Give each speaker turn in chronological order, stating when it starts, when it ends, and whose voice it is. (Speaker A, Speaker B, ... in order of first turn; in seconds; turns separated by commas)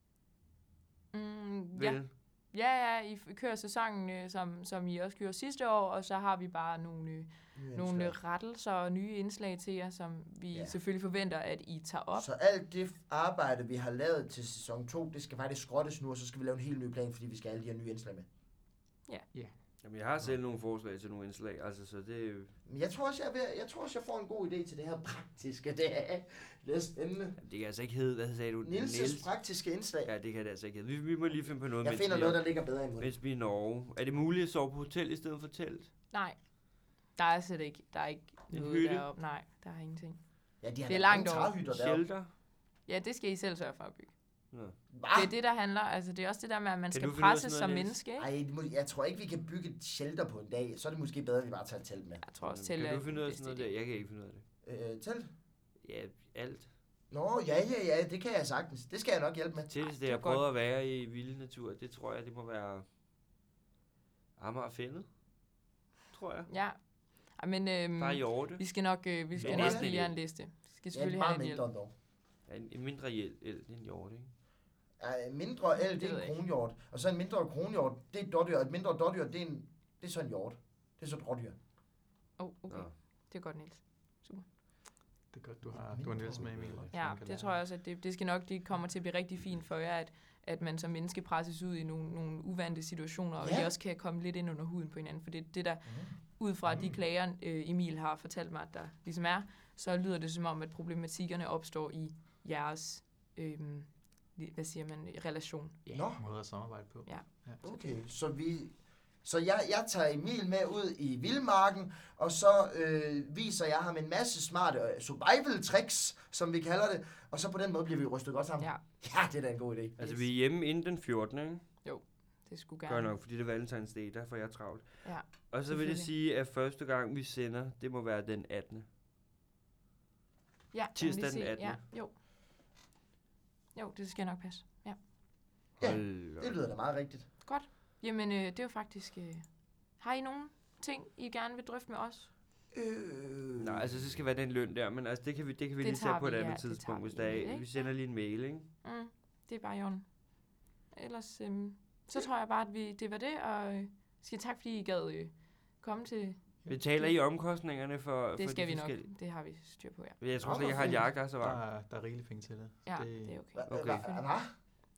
Speaker A: 1.1-12.2, Speaker B: 1.8-2.1, Speaker C: 7.5-8.2, Speaker C: 12.1-18.2, Speaker B: 19.8-22.5, Speaker C: 22.6-27.4, Speaker B: 27.4-29.3, Speaker C: 28.6-30.1, Speaker B: 30.0-32.4, Speaker C: 31.8-33.1, Speaker B: 33.0-35.9, Speaker A: 36.1-36.4, Speaker A: 37.1-40.2, Speaker B: 38.5-39.0, Speaker C: 40.6-42.0, Speaker A: 40.9-41.5, Speaker B: 41.7-42.3, Speaker A: 42.9-44.1, Speaker C: 44.9-45.3, Speaker A: 45.1-48.3, Speaker B: 46.9-48.0, Speaker C: 48.2-52.2, Speaker A: 52.2-53.7, Speaker B: 52.4-54.4, Speaker C: 54.6-55.3, Speaker B: 55.8-56.7, Speaker C: 57.1-59.7, Speaker B: 59.7-62.9, Speaker A: 59.8-60.4, Speaker B: 64.4-65.1, Speaker B: 66.1-66.5, Speaker A: 66.5-66.8, Speaker A: 67.3-71.7, Speaker B: 68.0-68.6, Speaker C: 69.3-69.9, Speaker B: 69.4-70.1, Speaker C: 70.9-71.9, Speaker B: 72.5-74.3, Speaker C: 75.0-81.5, Speaker A: 75.7-76.4, Speaker A: 82.4-84.4, Speaker D: 85.3-87.6, Speaker C: 85.7-86.9, Speaker A: 86.9-105.9, Speaker C: 93.4-93.7, Speaker C: 95.8-96.9, Speaker C: 105.9-106.2, Speaker D: 106.2-107.6, Speaker A: 107.0-107.9, Speaker C: 107.6-120.0, Speaker B: 120.0-121.6, Speaker A: 121.8-123.1, Speaker B: 122.8-128.8, Speaker A: 125.0-126.1, Speaker A: 130.7-132.1, Speaker B: 130.9-131.8, Speaker A: 133.7-135.0, Speaker C: 135.8-137.2, Speaker B: 135.8-136.6, Speaker A: 137.4-139.4, Speaker A: 140.0-142.3, Speaker C: 142.7-144.2, Speaker B: 143.6-148.7, Speaker A: 145.8-147.7, Speaker A: 148.8-150.1, Speaker A: 150.9-157.1, Speaker B: 156.7-159.1, Speaker A: 158.3-160.2, Speaker B: 160.2-161.6, Speaker C: 160.4-161.1, Speaker D: 161.4-163.4, Speaker A: 162.8-164.2, Speaker C: 163.5-164.5, Speaker B: 163.7-164.0